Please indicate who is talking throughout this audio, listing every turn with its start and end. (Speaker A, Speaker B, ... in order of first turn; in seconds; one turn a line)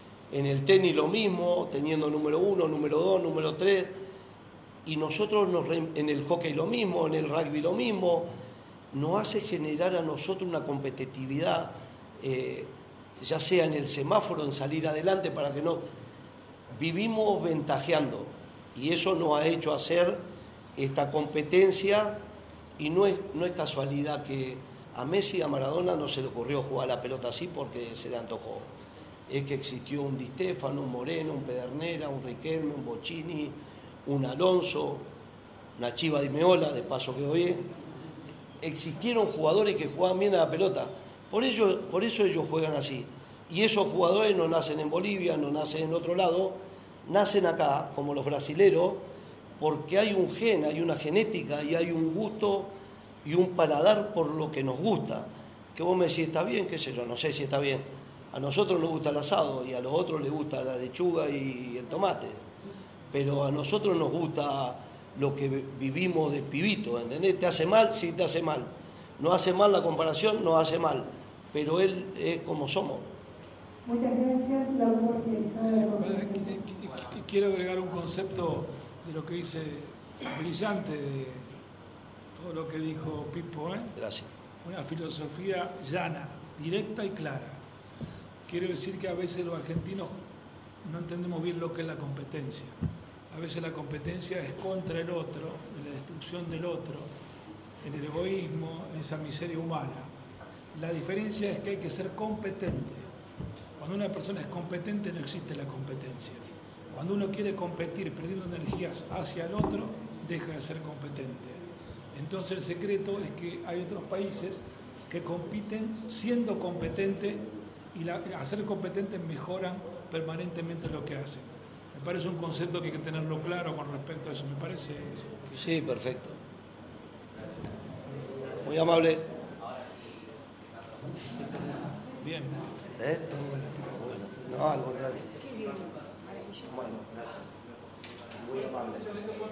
Speaker A: 0.3-4.0
Speaker A: 4.8-8.3
Speaker A: 8.9-15.8
Speaker A: 16.7-20.2
Speaker A: 20.8-22.2
Speaker A: 22.8-28.7
Speaker A: 29.3-35.1
Speaker A: 35.8-37.7
Speaker A: 38.6-49.0
Speaker A: 49.6-52.7
Speaker A: 53.2-62.4
Speaker A: 63.1-73.0
Speaker B: 73.8-76.6
Speaker C: 75.7-81.5
Speaker C: 82.3-83.9
Speaker A: 83.9-84.3
Speaker C: 84.6-87.6
Speaker C: 88.5-90.2
Speaker C: 90.8-92.7
Speaker C: 93.3-97.1
Speaker C: 97.8-100.1
Speaker C: 100.7-103.0
Speaker C: 103.8-111.6
Speaker C: 112.1-117.4
Speaker C: 117.9-125.6
Speaker A: 125.5-126.4
Speaker A: 128.6-129.2
Speaker C: 132.2-132.6
Speaker A: 133.0-135.2
Speaker B: 135.4-136.6
Speaker A: 136.7-137.4
Speaker A: 138.4-139.1